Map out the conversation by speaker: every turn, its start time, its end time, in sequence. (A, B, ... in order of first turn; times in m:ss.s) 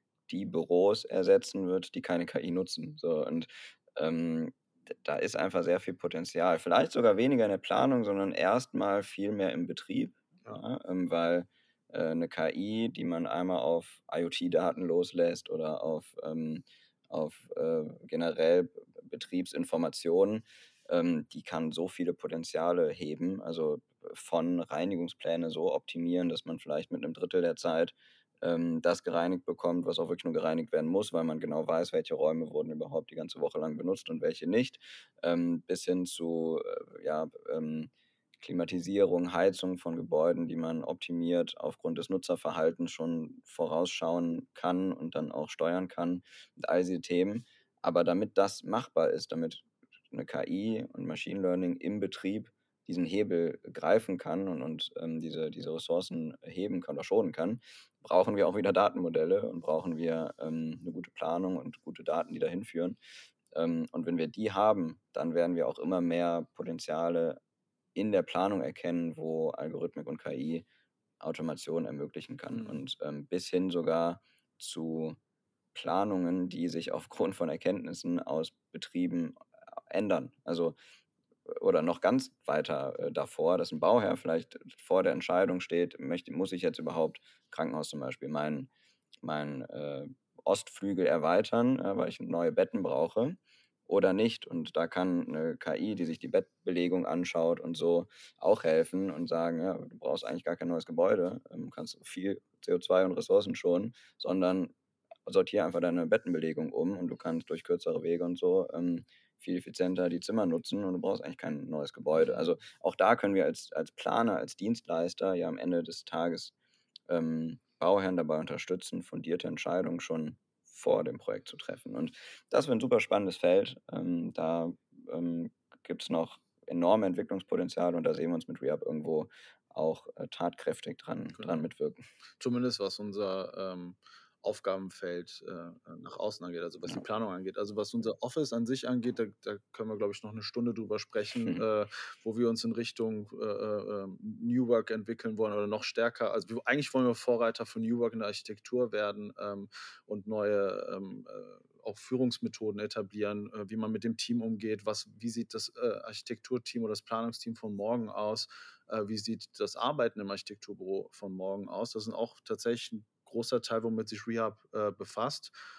0:00.3-1:03.0 A
1:03.5-1:07.4 A
1:08.0-1:10.7 A
1:11.2-1:15.2 A
1:12.5-1:12.8 B
1:15.7-1:20.8 A
1:21.5-1:28.7 A
1:29.2-1:44.7 A
1:45.3-1:56.5 A
1:52.2-1:52.5 B
1:57.1-2:12.0 A
2:11.4-2:11.6 B
2:12.4-2:45.5 B
2:21.4-2:21.6 A